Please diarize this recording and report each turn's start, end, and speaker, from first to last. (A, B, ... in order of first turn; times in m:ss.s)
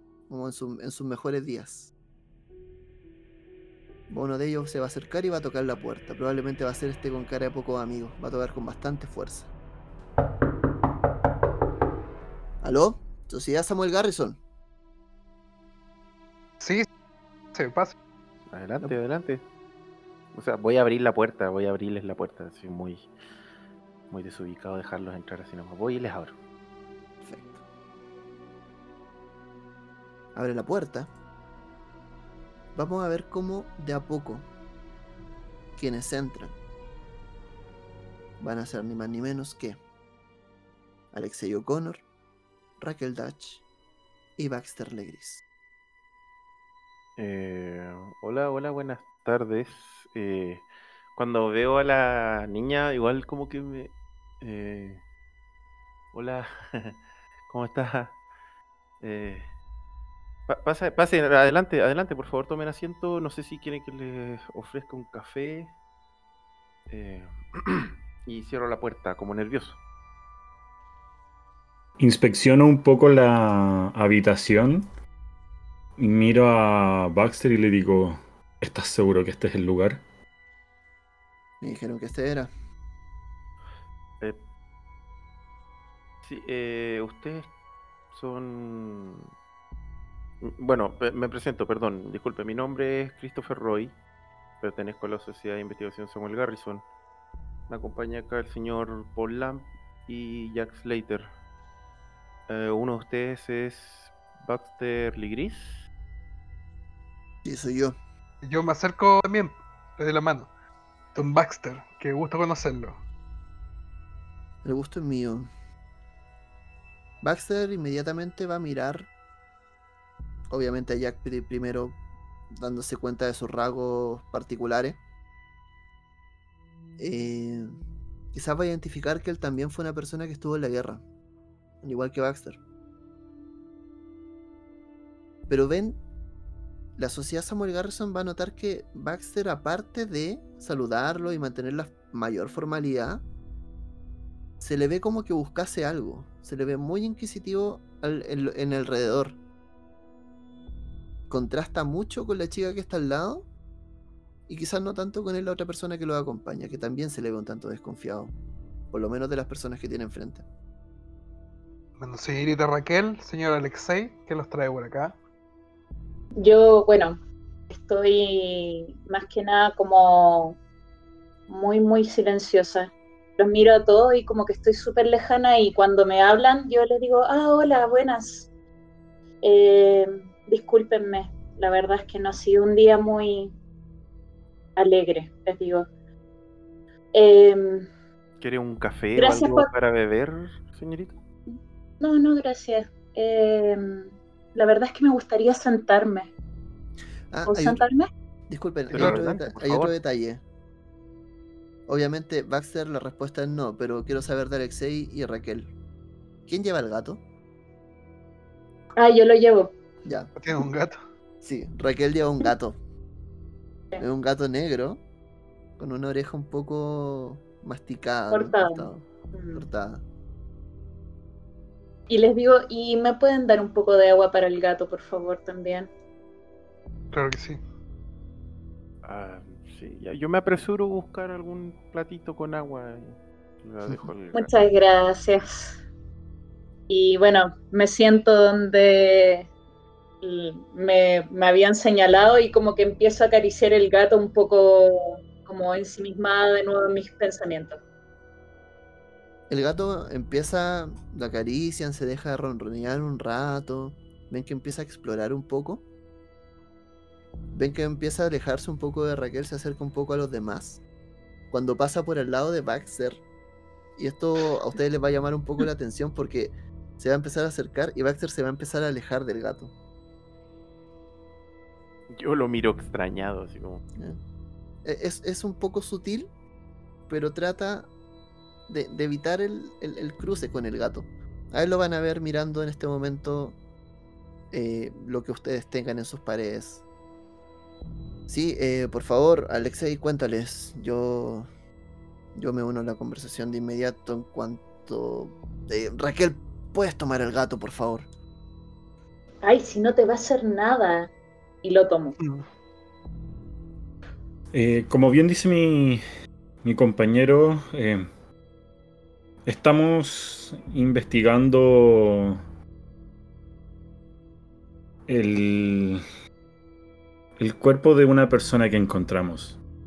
0:00.3-0:01.9 A
0:04.1-0:09.5 A
0:12.6-0:14.4 A
0:16.6-0:16.9 B
0:17.5-0:17.9 B
0:18.5-0:19.4 C
0:20.3-0:23.1 C
0:24.1-0:26.4 C
0:27.2-0:27.6 A
0:30.3-0:31.1 A
0:32.7-0:34.5 A
0:35.8-0:36.5 A
0:38.4-0:39.8 A
0:41.1-0:42.0 A
0:42.8-0:43.6 A
0:44.4-0:45.4 A
0:47.2-0:55.0 C
0:56.1-0:58.2 C
0:59.0-0:59.5 C
1:00.5-1:05.7 C
1:06.9-1:09.8 C
1:12.0-1:14.9 D
1:16.0-1:20.0 D
1:21.6-1:22.5 A
1:26.2-1:27.5 C
1:28.1-1:29.3 C
1:30.4-1:34.0 C
1:34.6-1:36.8 C
1:37.7-1:41.3 C
1:42.5-1:45.9 C
1:47.4-1:48.0 A
1:48.4-1:50.5 B
1:51.1-1:53.0 B
1:54.6-1:55.5 A
1:57.2-1:59.1 A
2:00.5-2:02.0 A
2:02.5-2:05.0 A
2:07.0-2:07.7 A
2:08.3-2:11.0 A
2:11.8-2:12.6 A
2:15.5-2:16.0 A
2:17.0-2:23.2 A
2:24.6-2:29.4 A
2:31.3-2:33.5 A
2:34.5-2:38.3 A
2:38.9-2:40.4 A
2:42.0-2:45.2 B
2:46.4-2:47.2 E
2:47.7-2:50.6 E
2:51.5-2:58.5 E
2:59.4-3:03.5 E
3:04.8-3:05.9 E
3:07.1-3:07.9 E
3:08.4-3:11.2 C
3:09.2-3:09.7 E
3:11.5-3:16.3 E
3:17.3-3:17.8 A
3:17.5-3:18.1 E
3:18.5-3:20.4 A
3:18.9-3:19.2 B
3:18.9-3:20.0 C
3:21.9-3:25.7 A
3:26.4-3:27.2 A
3:28.9-3:29.7 E
3:30.0-3:30.4 A
3:30.4-3:31.0 B
3:31.4-3:32.8 A
3:34.0-3:35.0 A
3:35.8-3:40.0 A
3:38.3-3:39.6 E
3:42.1-3:45.9 E
3:47.1-3:47.6 B
3:49.0-3:54.6 C
3:54.3-3:55.8 E
3:56.9-3:59.5 E
4:00.2-4:07.8 E
4:09.5-4:15.8 A
4:17.5-4:20.8 A
4:21.5-4:23.2 A
4:24.0-4:29.7 A
4:32.1-4:33.8 C
4:34.8-4:36.3 A
4:37.1-4:37.9 A
4:38.7-4:43.6 A
4:44.5-4:46.8 A
4:48.3-4:51.5 A
4:52.3-4:58.1 A
4:59.4-5:01.1 E
5:01.6-5:02.2 E
5:02.2-5:02.5 B
5:04.5-5:06.0 D
5:06.6-5:08.1 D
5:09.4-5:12.4 D
5:15.1-5:16.0 D
5:17.4-5:19.6 D